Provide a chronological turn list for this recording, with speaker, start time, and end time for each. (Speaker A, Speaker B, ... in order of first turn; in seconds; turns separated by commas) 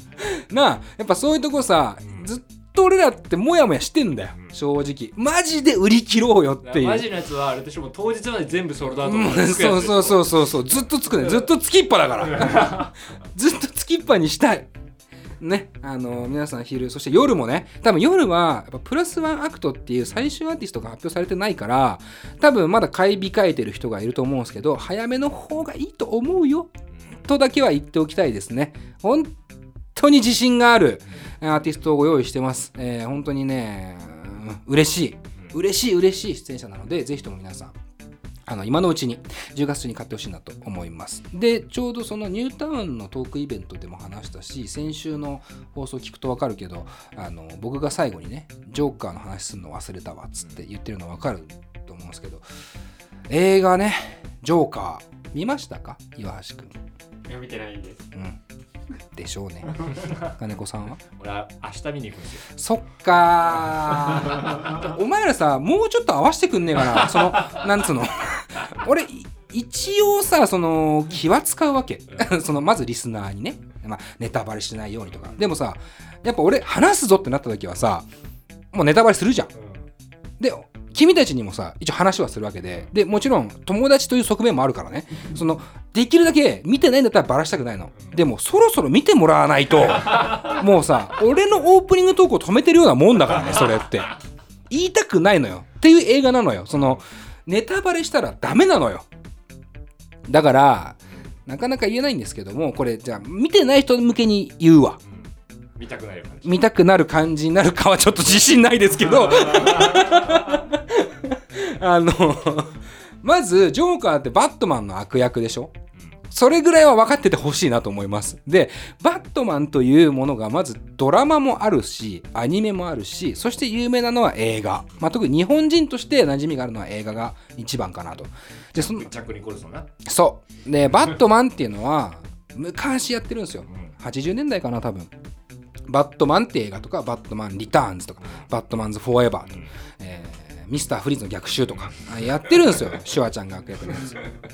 Speaker A: 0.2-7.1, Speaker B: 6.6-10.4, Speaker A: 9.0-14.7, Speaker B: 12.4-12.9, Speaker A: 15.4-26.7, Speaker A: 27.2-29.3, Speaker A: 29.9-37.8, Speaker A: 38.5-52.4, Speaker A: 53.3-56.8, Speaker B: 57.3-58.0, Speaker A: 58.1-58.4, Speaker A: 59.1-61.0, Speaker B: 61.1-62.5, Speaker A: 62.5-78.1, Speaker B: 64.1-64.7, Speaker A: 78.7-79.5, Speaker B: 79.5-79.8, Speaker A: 80.4-94.1, Speaker B: 90.1-90.4, Speaker A: 94.7-99.1, Speaker A: 100.3-105.0, Speaker B: 105.0-106.6, Speaker A: 106.4-115.8, Speaker B: 109.3-110.5, Speaker A: 116.3-129.1, Speaker B: 128.8-129.9, Speaker A: 130.1-135.1, Speaker A: 135.9-144.2